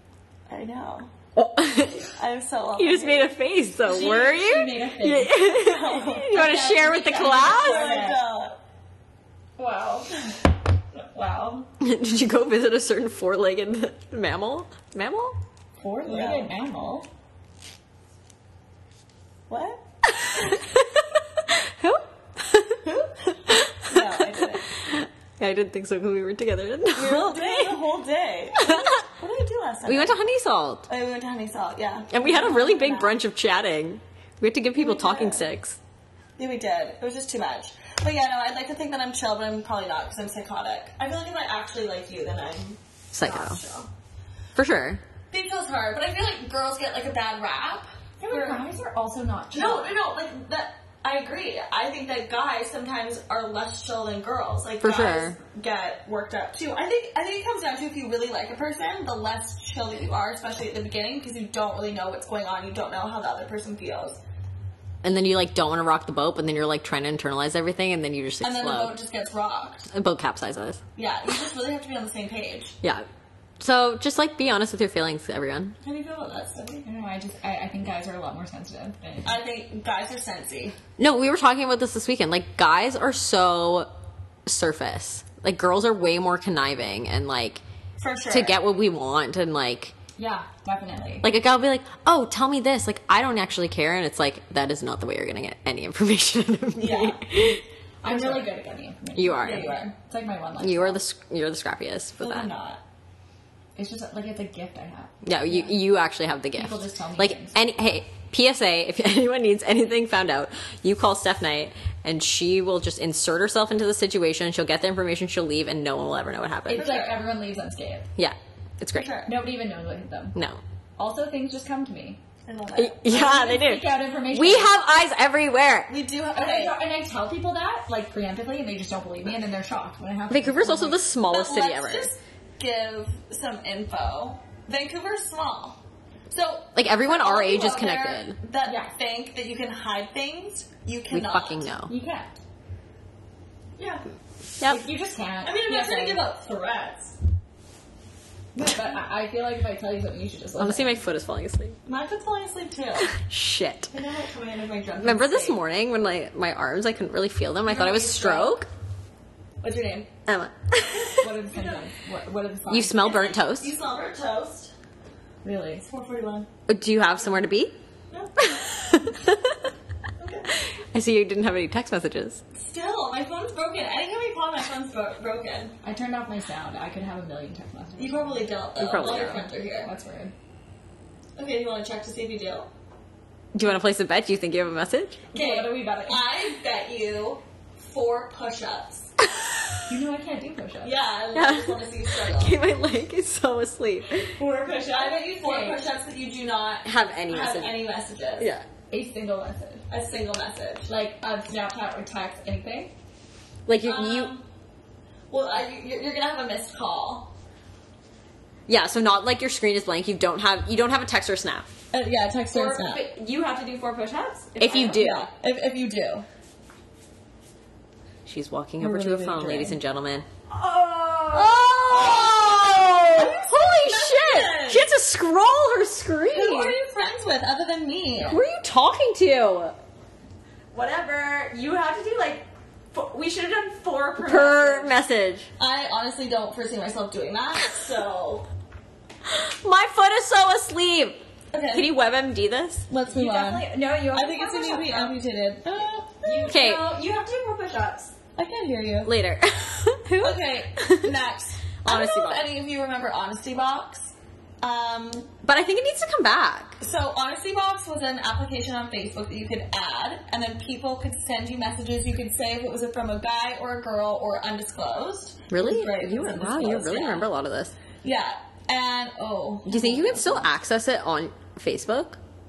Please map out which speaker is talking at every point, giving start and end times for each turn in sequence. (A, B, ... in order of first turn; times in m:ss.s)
0:00.5-0:01.1 A
0:01.4-0:02.1 B
0:02.1-0:03.4 A
0:02.8-0:07.9 B
0:03.9-0:05.5 C
0:05.5-0:08.6 A
0:06.2-0:08.2 C
0:09.6-0:10.4 C
0:10.9-0:11.7 C
0:11.8-0:15.4 B
0:15.8-0:17.1 C
0:16.0-0:16.5 A
0:19.5-0:19.8 A
0:20.1-0:22.8 B
0:22.8-0:23.1 A
0:23.5-0:27.8 B
0:23.8-0:24.7 A
0:27.0-0:30.2 A
0:28.6-0:29.0 B
0:29.9-0:30.9 B
0:30.9-0:33.2 A
0:32.1-0:35.8 B
0:34.8-0:35.5 A
0:36.4-0:43.9 A
0:43.1-0:43.6 B
0:44.6-0:45.0 B
0:45.3-0:48.6 A
0:48.2-0:49.9 C
0:49.5-1:04.2 A
0:54.8-0:55.4 B
1:05.0-1:09.0 B
1:08.4-1:09.9 A
1:09.9-1:10.8 B
1:11.0-1:12.8 A
1:13.6-1:15.8 B
1:15.8-1:16.9 A
1:16.8-1:19.4 C
1:19.2-1:20.8 A
1:21.0-1:23.9 B
1:24.5-1:27.6 B
1:28.0-1:28.6 A
1:28.3-1:29.9 B
1:30.2-1:31.3 C
1:31.2-1:37.6 B
1:36.8-1:37.2 A
1:38.0-1:41.0 C
1:38.0-1:38.5 A
1:39.2-1:39.8 B
1:39.4-1:39.9 A
1:40.6-1:42.5 B
1:42.2-1:42.8 A
1:43.8-1:45.8 C
1:45.2-1:56.9 B
1:46.6-1:47.6 C
1:56.7-1:57.2 A
1:56.7-1:58.1 C
1:58.2-1:59.1 B
1:58.9-1:59.4 A
1:59.3-2:00.4 C
2:00.4-2:00.6 B
2:01.0-2:02.2 C
2:02.5-2:03.5 A
2:02.8-2:05.9 B
2:03.1-2:04.8 C
2:05.9-2:06.8 A
2:06.3-2:11.0 C
2:10.3-2:12.1 B
2:11.3-2:15.8 A
2:16.3-2:21.6 A
2:16.8-2:18.4 B
2:18.6-2:18.9 C
2:21.1-2:21.9 B
2:21.9-2:22.4 C
2:23.8-2:24.0 A
2:24.6-2:26.2 C
2:25.4-2:27.2 A
2:28.6-2:31.0 C
2:30.6-2:31.8 B
2:31.9-2:33.2 A
2:33.1-2:33.9 B
2:33.9-2:35.6 A
2:35.0-2:38.7 B
2:37.6-2:38.6 A
2:39.6-2:40.1 A
2:40.3-2:41.3 B
2:40.9-2:41.9 A
2:41.2-2:43.1 C
2:42.7-2:43.7 B
2:43.0-2:44.7 A
2:45.4-2:45.8 C
2:45.8-2:46.5 A
2:46.7-2:47.8 B
2:48.1-2:48.5 A
2:48.4-2:49.6 B
2:50.2-2:50.5 A
2:50.9-2:52.4 B
2:52.6-2:55.7 A
2:55.8-2:58.6 C
2:58.0-2:59.9 A
2:58.8-2:59.5 B
2:59.3-3:00.3 C
3:01.4-3:02.7 A
3:03.5-3:05.2 B
3:05.3-3:06.2 C
3:05.3-3:09.2 A
3:09.9-3:11.0 C
3:10.8-3:12.6 A
3:11.3-3:14.3 B
3:14.4-3:15.8 C
3:14.8-3:18.5 A
3:16.8-3:17.8 B
3:18.4-3:18.6 B
3:18.9-3:19.8 C
3:19.9-3:20.9 A
3:20.9-3:22.9 C
3:23.7-3:24.3 B
3:23.8-3:24.4 A
3:25.3-3:27.3 A
3:28.7-3:31.7 B
3:31.9-3:33.0 A
3:32.5-3:35.1 C
3:34.6-3:35.3 B
3:34.8-3:36.3 A
3:38.3-3:40.3 B
3:38.8-3:39.7 C
3:38.9-3:39.7 A
3:40.5-3:42.0 C
3:41.3-3:46.8 B
3:41.9-3:44.8 A
3:46.3-3:48.4 A
3:48.2-3:49.8 B
3:50.7-3:54.9 C
3:54.2-3:55.5 B
3:55.6-3:58.5 A
3:59.2-4:02.9 B
4:01.5-4:01.9 A
4:02.9-4:06.6 A
4:03.1-4:05.2 C
4:05.8-4:08.1 C
4:06.5-4:06.9 B
4:08.4-4:09.1 A
4:09.0-4:11.2 B
4:10.2-4:15.3 A
4:11.8-4:12.4 B
4:15.4-4:16.8 B
4:16.8-4:27.2 A
4:25.5-4:27.7 B
4:28.0-4:30.5 A
4:29.7-4:32.2 B